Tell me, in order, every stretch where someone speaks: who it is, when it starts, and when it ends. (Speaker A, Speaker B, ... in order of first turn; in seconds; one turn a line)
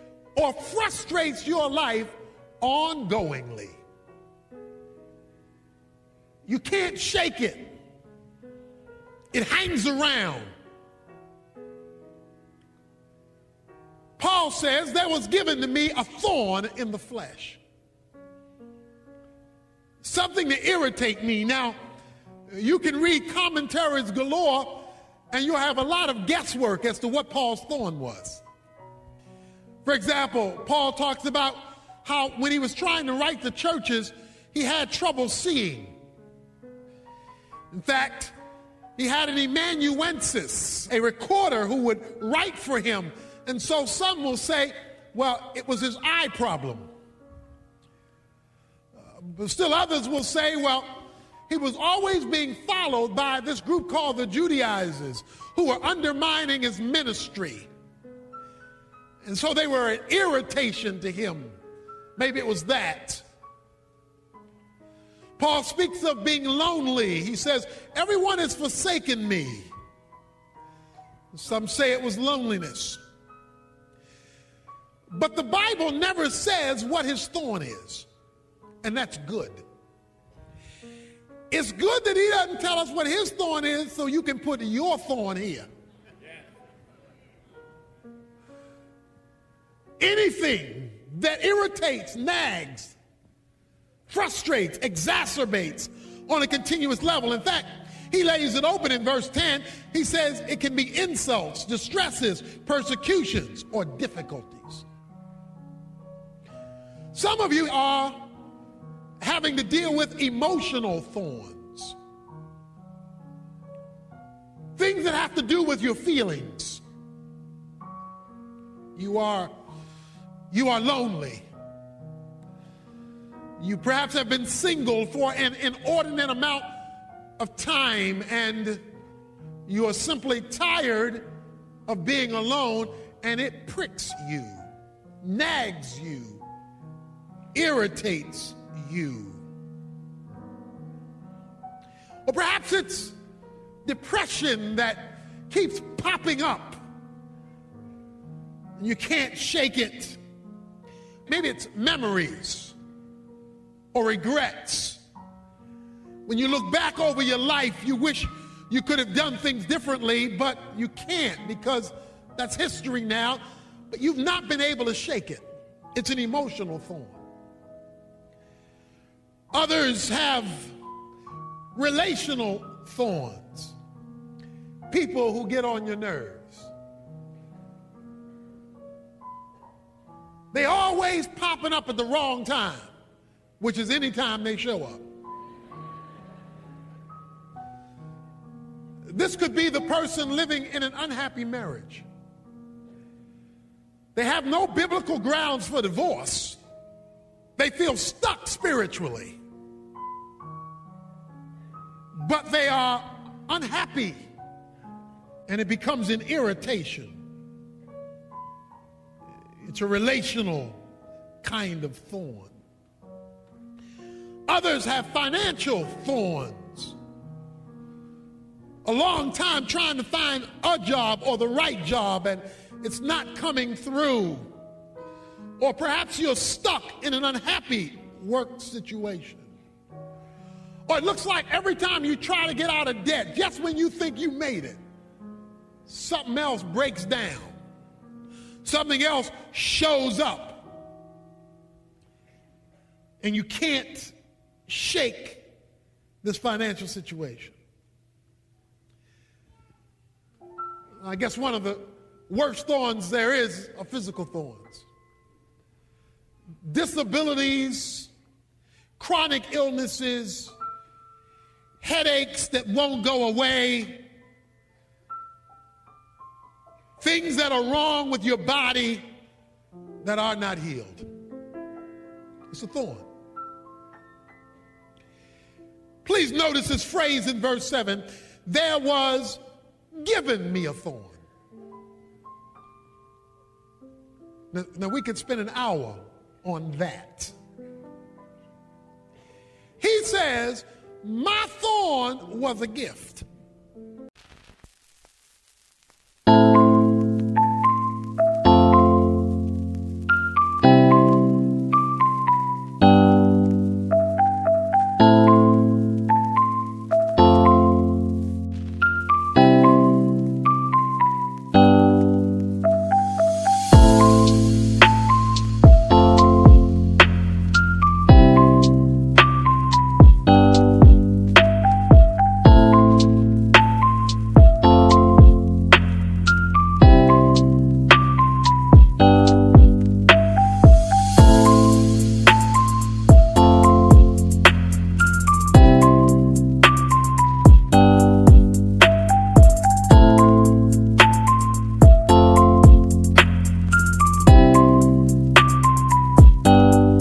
Speaker A: 0.4-3.8
Speaker A: 6.5-7.8
Speaker A: 9.3-10.5
Speaker A: 14.2-17.6
Speaker A: 20.0-21.8
Speaker A: 22.5-28.4
Speaker A: 29.9-36.0
Speaker A: 37.7-38.4
Speaker A: 39.0-46.9
Speaker A: 49.1-57.7
Speaker A: 59.2-61.5
Speaker A: 62.2-63.2
Speaker A: 65.4-69.7
Speaker A: 71.3-73.0
Speaker A: 75.1-78.1
Speaker A: 78.8-79.7
Speaker A: 81.5-85.7
Speaker A: 90.0-93.0
Speaker A: 94.1-104.9
Speaker A: 107.1-108.3
Speaker A: 109.2-112.0
Speaker A: 114.8-116.8
Speaker A: 119.0-119.5
Speaker A: 120.5-121.5
Speaker A: 123.6-126.8
Speaker A: 127.4-128.8
Speaker A: 129.7-131.3
Speaker A: 131.9-134.7
Speaker A: 135.2-136.4
Speaker A: 137.5-139.4
Speaker A: 142.3-143.2
Speaker A: 143.8-146.8
Speaker A: 148.8-150.2
Speaker A: 151.3-152.8
Speaker A: 153.9-155.0
Speaker A: 156.3-167.2
Speaker A: 169.5-170.8
Speaker A: 171.8-173.8
Speaker A: 174.9-176.7
Speaker A: 180.5-182.9
Speaker A: 183.6-185.0
Speaker A: 189.1-192.1
Speaker A: 194.2-196.6
Speaker A: 197.6-199.4
Speaker A: 202.2-204.2
Speaker A: 205.5-207.2
Speaker A: 209.6-210.8
Speaker A: 211.4-212.6
Speaker A: 214.5-216.9
Speaker A: 218.8-224.5
Speaker A: 225.6-229.5
Speaker A: 230.9-234.8
Speaker A: 235.9-237.6
Speaker A: 238.6-240.8
Speaker A: 243.2-244.1
Speaker A: 244.7-245.5
Speaker A: 246.2-247.6
Speaker A: 251.0-254.9
Speaker A: 256.6-258.1
Speaker A: 259.0-260.5
Speaker A: 261.8-264.1
Speaker A: 267.0-269.1
Speaker A: 270.0-271.1
Speaker A: 272.5-273.1
Speaker A: 276.0-279.4
Speaker A: 279.9-281.2
Speaker A: 284.5-287.3
Speaker A: 289.8-293.2